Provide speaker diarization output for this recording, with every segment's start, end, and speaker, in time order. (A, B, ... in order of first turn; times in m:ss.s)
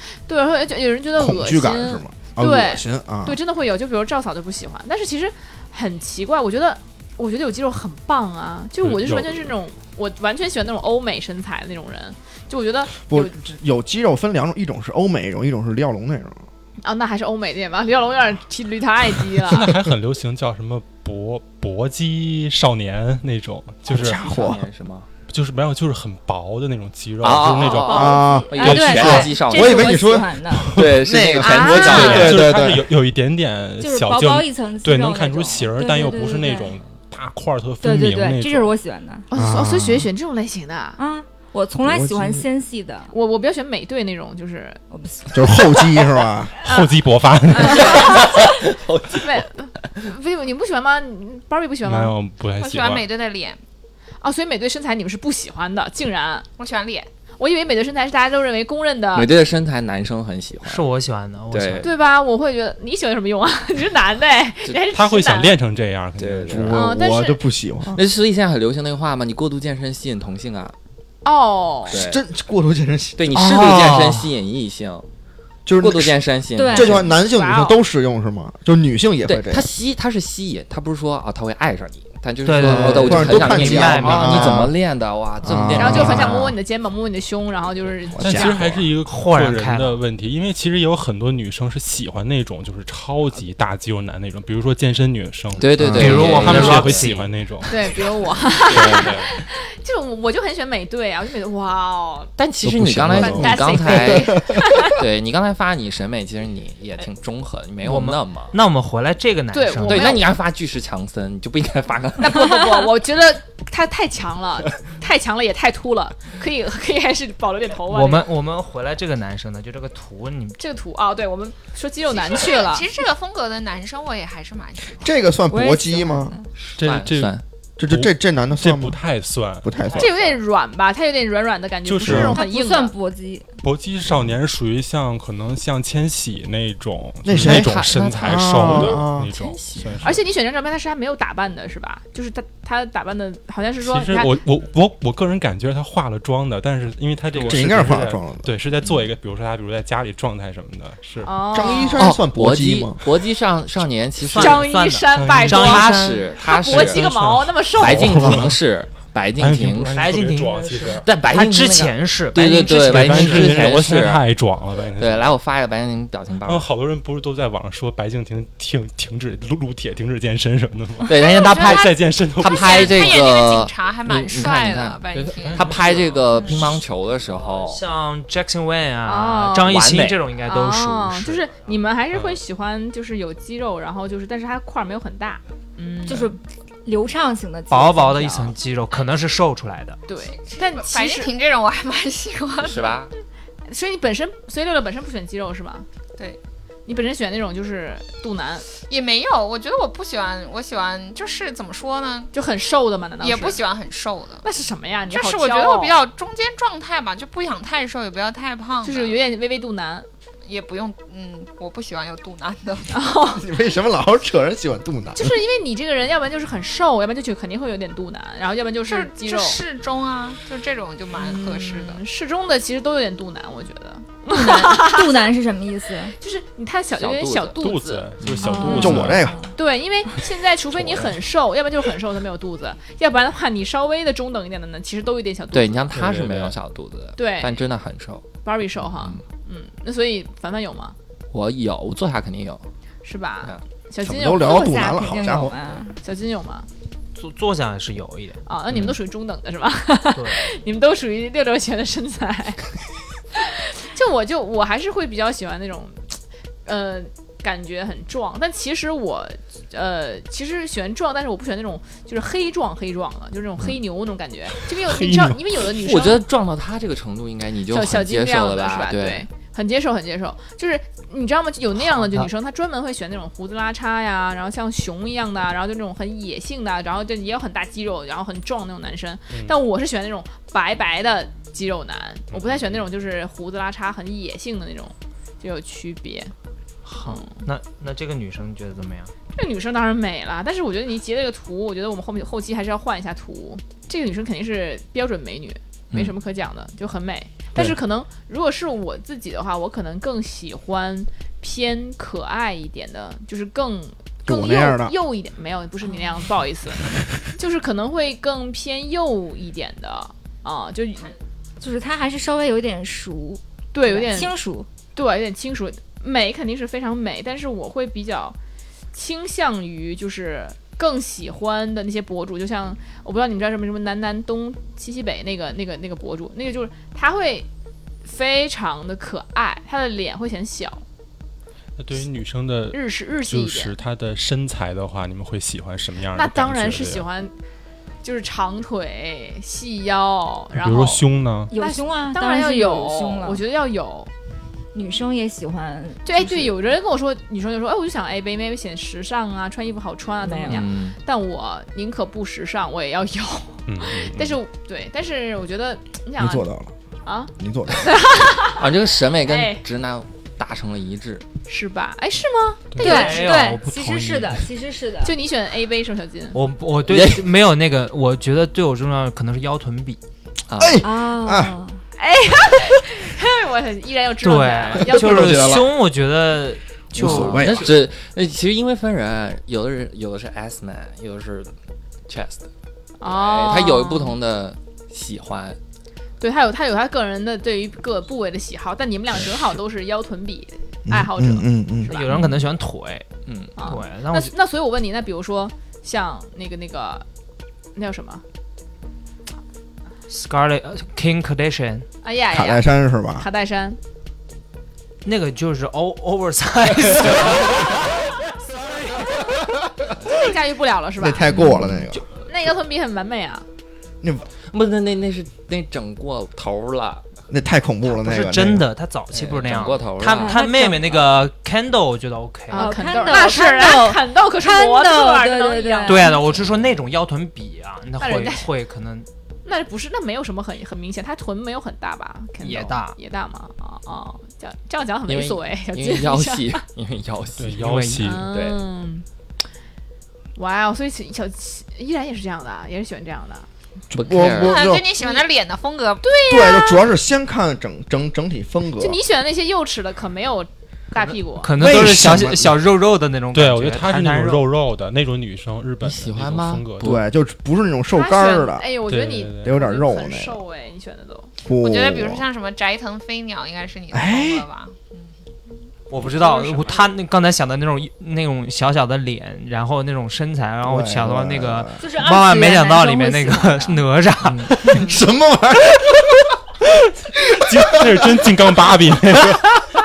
0:00.3-0:13.4 A
0:01.2-0:03.4 B
0:08.8-0:09.5 C
0:13.1-0:16.4 B
0:16.8-0:19.7 A
0:19.5-0:24.2 C
0:23.9-0:24.6 B
0:24.0-0:25.1 D
0:25.3-0:29.4 C
0:27.2-0:30.1 D
0:27.6-0:28.4 A
0:27.9-0:32.9 B
0:28.3-0:30.7 E
0:30.7-0:32.7 D
0:31.4-0:32.2 A
0:31.8-0:38.7 C
0:33.8-0:36.7 E
0:37.8-0:39.3 E
0:39.3-0:41.0 A
0:39.3-0:40.1 B
0:41.0-0:43.1 E
0:41.8-0:42.4 B
0:43.1-0:44.8 A
0:44.9-0:45.6 E
0:45.3-0:46.5 B
0:46.6-0:48.2 C
0:46.6-0:48.6 A
0:47.8-0:49.4 D
0:49.1-0:52.1 A
0:51.8-0:53.0 C
0:52.6-0:53.6 F
0:54.2-0:56.5 A
0:56.6-0:57.1 F
0:57.4-0:59.3 A
0:59.1-1:00.9 D
1:00.6-1:01.9 G
1:01.5-1:01.9 D
1:01.8-1:05.6 A
1:04.9-1:06.9 C
1:06.2-1:06.7 D
1:06.5-1:08.0 B
1:06.7-1:07.4 A
1:07.9-1:10.7 D
1:11.2-1:12.0 A
1:11.9-1:12.2 D
1:11.9-1:14.3 B
1:13.2-1:15.1 D
1:15.6-1:19.7 B
1:15.8-1:17.1 D
1:16.6-1:17.0 E
1:17.1-1:17.8 A
1:19.2-1:26.5 D
1:22.4-1:24.6 G
1:22.6-1:24.8 B
1:25.4-1:26.5 B
1:25.8-1:28.6 A
1:28.2-1:28.9 B
1:28.2-1:38.0 C
1:29.0-1:30.0 G
1:35.5-1:37.2 D
1:35.7-1:36.2 B
1:36.0-1:37.3 G
1:37.7-1:42.3 A
1:38.7-1:39.3 C
1:38.7-1:39.2 D
1:42.4-1:48.6 D
1:42.6-1:44.7 B
1:43.1-1:45.0 A
1:47.8-1:50.3 G
1:49.5-1:50.3 A
1:49.8-1:52.7 D
1:52.2-1:58.3 A
1:57.8-2:00.6 G
2:00.6-2:02.9 A
2:02.1-2:05.1 F
2:05.0-2:06.3 B
2:05.5-2:06.4 E
2:06.6-2:07.4 D
2:06.8-2:10.0 C
2:07.8-2:09.0 B
2:09.6-2:10.1 B
2:10.0-2:12.9 A
2:11.8-2:12.4 C
2:12.1-2:13.4 E
2:13.6-2:20.2 C
2:17.2-2:19.3 B
2:17.4-2:20.1 D
2:20.0-2:24.4 A
2:23.8-2:31.3 C
2:27.3-2:28.0 G
2:27.5-2:28.5 B
2:31.2-2:32.1 A
2:31.5-2:33.0 B
2:32.0-2:34.7 D
2:34.2-2:36.4 G
2:34.3-2:38.4 A
2:35.1-2:35.7 C
2:35.5-2:37.0 D
2:36.7-2:38.6 C
2:37.8-2:40.0 D
2:39.4-2:41.0 C
2:39.9-2:43.7 G
2:41.0-2:44.2 D
2:42.8-2:45.3 C
2:45.0-2:46.7 D
2:46.4-2:53.0 C
2:51.0-2:57.8 D
2:51.2-2:55.9 F
2:55.2-2:56.8 C
2:57.3-3:01.8 G
2:59.0-2:59.7 A
2:59.6-3:00.2 D
3:00.4-3:06.4 A
3:02.1-3:02.4 C
3:06.1-3:08.5 E
3:07.7-3:10.0 G
3:10.1-3:11.3 A
3:10.3-3:13.0 F
3:12.6-3:13.1 D
3:13.7-3:15.8 A
3:16.9-3:18.7 A
3:18.7-3:22.3 F
3:22.3-3:23.6 A
3:23.2-3:24.4 F
3:24.4-3:26.0 A
3:25.1-3:29.2 F
3:28.8-3:30.1 A
3:30.4-3:33.0 F
3:32.9-3:33.4 A
3:33.4-3:35.3 B
3:35.2-3:39.6 A
3:38.9-3:42.0 F
3:41.1-3:45.2 A
3:44.3-3:46.1 E
3:46.2-3:48.1 A
3:47.0-3:47.6 D
3:47.6-3:49.3 C
3:48.2-3:48.7 D
3:48.4-3:49.4 E
3:48.6-3:49.0 A
3:48.7-3:49.4 B
3:49.5-3:55.9 A
3:55.5-3:58.3 D
3:55.9-3:56.6 C
3:57.2-3:57.6 A
3:58.4-4:00.9 A
3:58.8-3:59.2 D
4:01.3-4:02.6 D
4:03.0-4:05.1 A
4:04.0-4:05.5 B
4:04.4-4:06.0 E
4:06.0-4:06.7 A
4:07.1-4:08.4 G
4:08.5-4:12.7 A
4:08.7-4:08.9 D
4:10.1-4:10.6 G
4:13.3-4:26.2 A
4:25.0-4:25.3 C
4:25.6-4:29.2 D
4:27.7-4:46.3 A
4:31.9-4:32.3 D
4:39.3-4:39.6 C
4:42.3-4:42.7 C
4:46.8-4:49.1 G
4:47.0-4:47.4 A
4:49.3-5:11.1 A
5:04.2-5:04.9 B
5:11.6-5:14.7 E
5:13.7-5:14.3 A
5:14.9-5:18.4 A
5:18.9-5:27.5 A
5:28.0-5:30.8 A
5:31.8-5:37.0 C
5:32.7-5:33.7 A
5:36.1-5:37.3 A
5:38.0-5:44.1 A
5:40.5-5:41.5 C
5:41.5-5:43.4 E
5:44.7-5:46.4 E
5:46.0-5:56.5 A
5:50.2-5:50.6 E
5:50.5-5:51.0 D
5:53.7-5:54.4 C
5:56.2-5:56.7 B
5:57.0-5:58.7 A
5:57.4-5:57.9 B
5:58.6-6:01.2 D
5:59.2-5:59.6 A
6:01.5-6:03.2 A
6:02.7-6:03.0 C
6:02.8-6:04.4 G
6:02.8-6:05.2 E
6:05.0-6:06.4 A
6:06.3-6:10.0 G
6:06.9-6:07.3 D
6:10.5-6:10.8 D
6:10.6-6:11.5 B
6:10.8-6:11.8 E
6:12.0-6:15.6 A
6:14.2-6:17.7 G
6:14.8-6:15.7 B
6:16.9-6:17.7 B
6:17.0-6:21.5 D
6:22.1-6:22.5 D
6:23.0-6:24.2 A
6:23.0-6:25.6 D
6:26.2-6:32.2 A
6:30.9-6:31.9 B
6:31.9-6:33.0 G
6:33.2-6:33.6 D
6:33.6-6:37.0 A
6:33.6-6:34.3 G
6:37.7-6:38.2 A
6:40.1-6:41.9 G
6:42.0-6:43.8 A
6:42.3-6:43.2 B
6:45.0-6:47.6 G
6:50.0-6:51.4 A
6:51.0-6:52.0 B
6:51.3-6:51.8 D
6:52.2-6:53.4 A
6:54.4-6:57.0 D
6:57.3-6:58.7 B
6:57.9-7:02.8 G
6:59.1-7:00.3 D
7:00.2-7:00.9 E
7:02.5-7:06.2 A
7:02.5-7:06.2 E
7:05.8-7:09.1 G
7:06.3-7:06.6 D
7:08.0-7:08.5 A
7:09.4-7:16.6 A
7:12.4-7:13.0 G
7:15.1-7:18.6 D
7:17.4-7:18.3 C
7:17.6-7:18.1 G
7:18.0-7:19.0 A
7:20.4-7:23.5 A
7:23.9-7:24.9 B
7:23.9-7:24.6 D
7:24.3-7:26.1 F
7:26.0-7:26.9 A
7:26.3-7:29.0 B
7:28.8-7:31.6 A
7:31.4-7:34.4 G
7:31.6-7:32.5 B
7:33.3-7:36.9 C
7:35.8-7:37.0 D
7:36.8-7:38.7 B
7:37.9-7:41.3 A
7:38.9-7:39.6 C
7:39.4-7:40.4 B
7:41.4-7:42.2 B
7:41.6-7:45.1 F
7:43.9-7:44.4 B
7:45.9-7:54.7 G
7:46.1-7:46.9 A
7:50.6-7:51.8 B
7:51.8-7:53.8 E
7:54.5-7:56.2 B
7:57.3-7:59.6 C
7:57.3-7:58.5 B